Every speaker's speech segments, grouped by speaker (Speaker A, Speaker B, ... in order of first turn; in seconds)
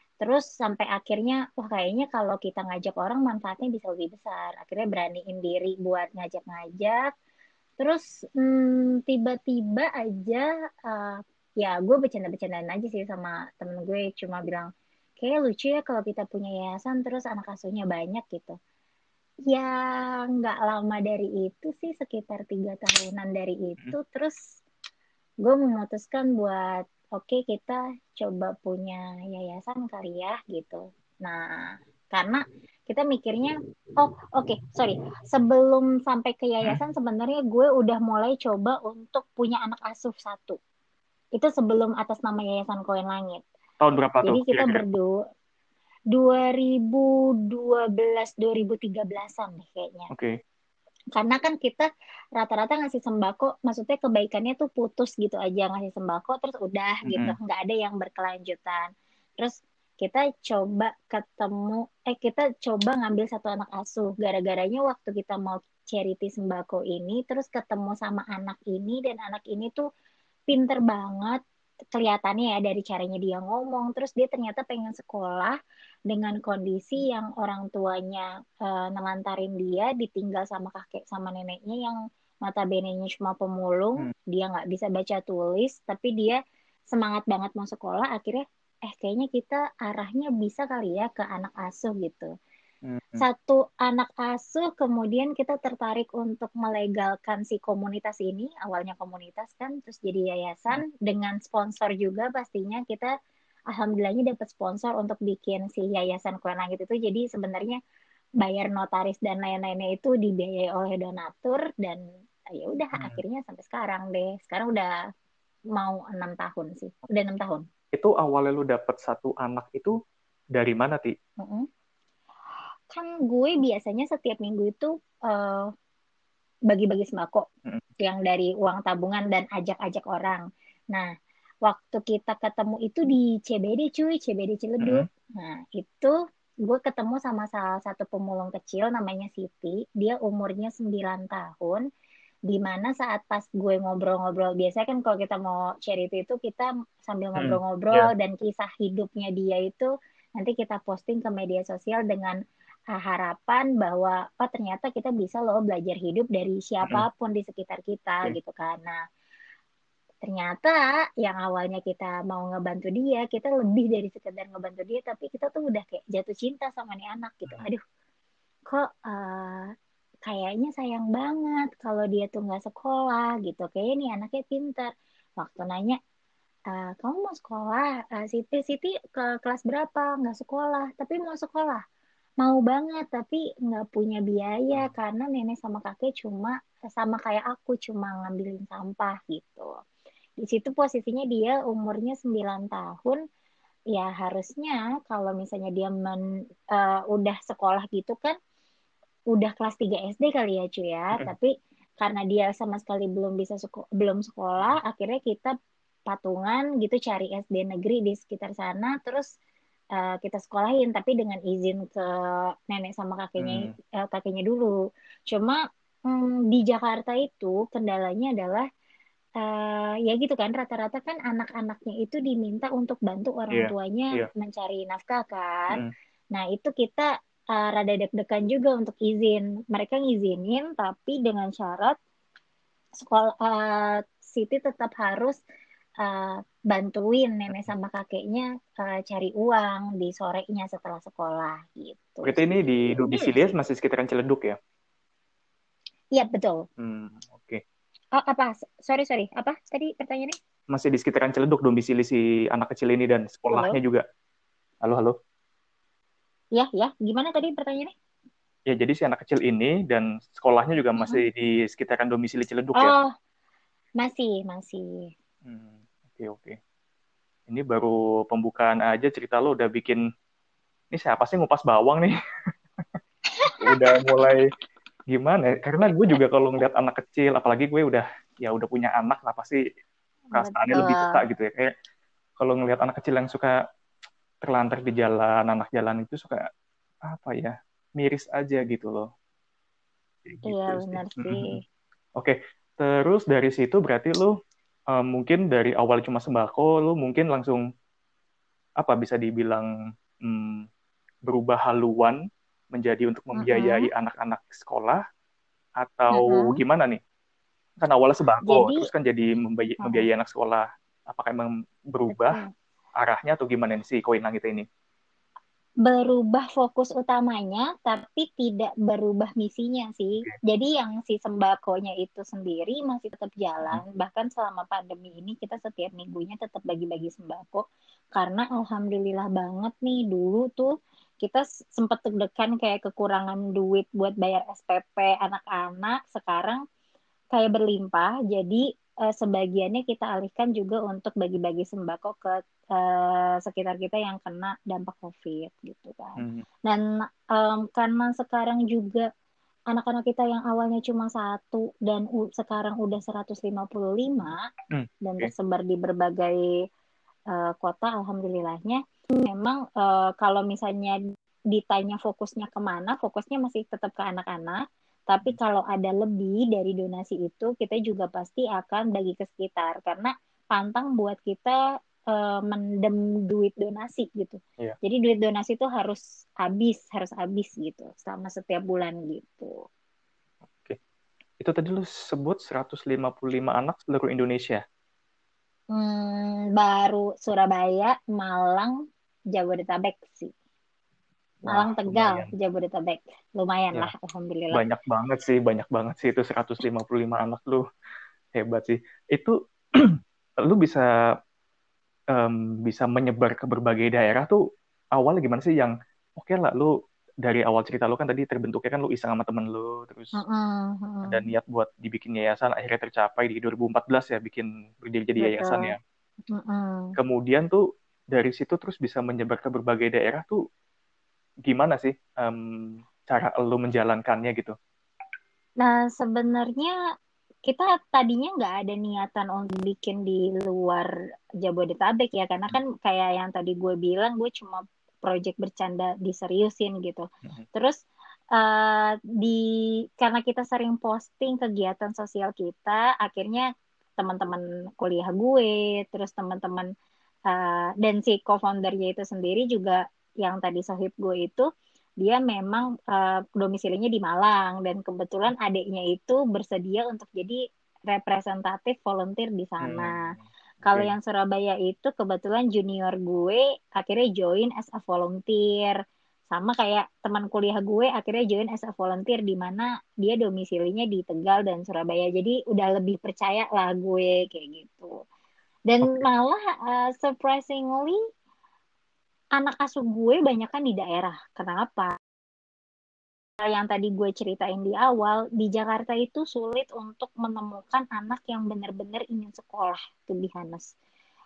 Speaker A: 0.2-7.1, 7.8-14.7, 15.2-18.6, 19.5-24.4, 25.4-40.6, 41.4-43.4, 44.2-45.1, 46.1-50.1, 51.1-69.8, 70.5-71.4, 71.9-75.5, 76.1-86.4, 86.9-92.3, 93.2-103.1, 103.7-107.8, 108.4-114.9, 115.7-117.6, 121.4-121.7, 122.9-125.7, 126.7-127.5, 128.0-131.1, 131.6-136.1, 136.6-141.8, 142.5-152.4, 152.9-159.0, 160.2-167.8, 168.7-169.7, 170.2-176.0, 176.7-181.8, 182.4-189.7, 190.4-193.2, 193.9-198.3, 199.3-205.5, 206.1-209.3, 209.9-214.7, 215.3-218.7, 219.4-225.8, 226.3-232.0, 233.0-235.4, 236.0-243.4, 246.1-246.6, 248.1-250.3, 253.5-253.8, 256.6-257.9, 262.8-263.1, 264.0-265.1, 273.4-274.2, 280.3-281.2, 290.4-291.6, 303.4-303.9, 306.1-306.6, 308.4-308.9, 312.1-312.5, 315.8-327.6, 328.1-336.6, 337.3-349.1, 349.7-354.4, 355.0-356.5, 357.3-361.0, 361.5-371.6, 372.1-379.6, 385.7-388.7, 389.3-390.3, 391.5-394.6, 410.1-411.2, 415.2-415.7, 416.3-416.9, 425.6-426.7, 427.4-430.9, 431.4-437.8, 438.3-439.4, 440.0-443.5, 444.0-446.7, 447.3-451.5, 452.0-457.4, 457.9-460.1, 460.6-465.8, 466.3-474.9, 475.7-478.0, 479.4-481.9, 483.4-490.7
Speaker B: 43.8-44.8, 57.1-57.3, 92.8-93.2, 117.9-120.0, 120.5-121.1, 134.8-135.1, 147.4-148.1, 213.4-213.7, 223.5-224.3, 242.2-244.6, 246.8-247.6, 250.7-254.0, 254.8-255.1, 258.7-262.9, 265.4-266.6, 267.5-270.0, 270.9-272.1, 273.6-274.5, 275.1-279.6, 280.3-281.7, 282.4-283.6, 284.4-286.5, 287.1-289.1, 290.2-291.6, 292.2-294.3, 294.9-297.6, 298.8-299.7, 300.2-300.6, 301.2-302.2, 302.7-305.0, 305.8-307.0, 307.8-312.4, 313.0-314.6, 346.2-346.4, 354.7-355.3, 380.5-380.8, 381.4-384.6, 391.4-392.3, 394.5-397.6, 398.3-400.9, 402.1-404.4, 404.9-406.7, 407.2-410.1, 411.1-415.8, 417.0-417.6, 418.1-420.4, 421.4-424.5, 459.6-460.9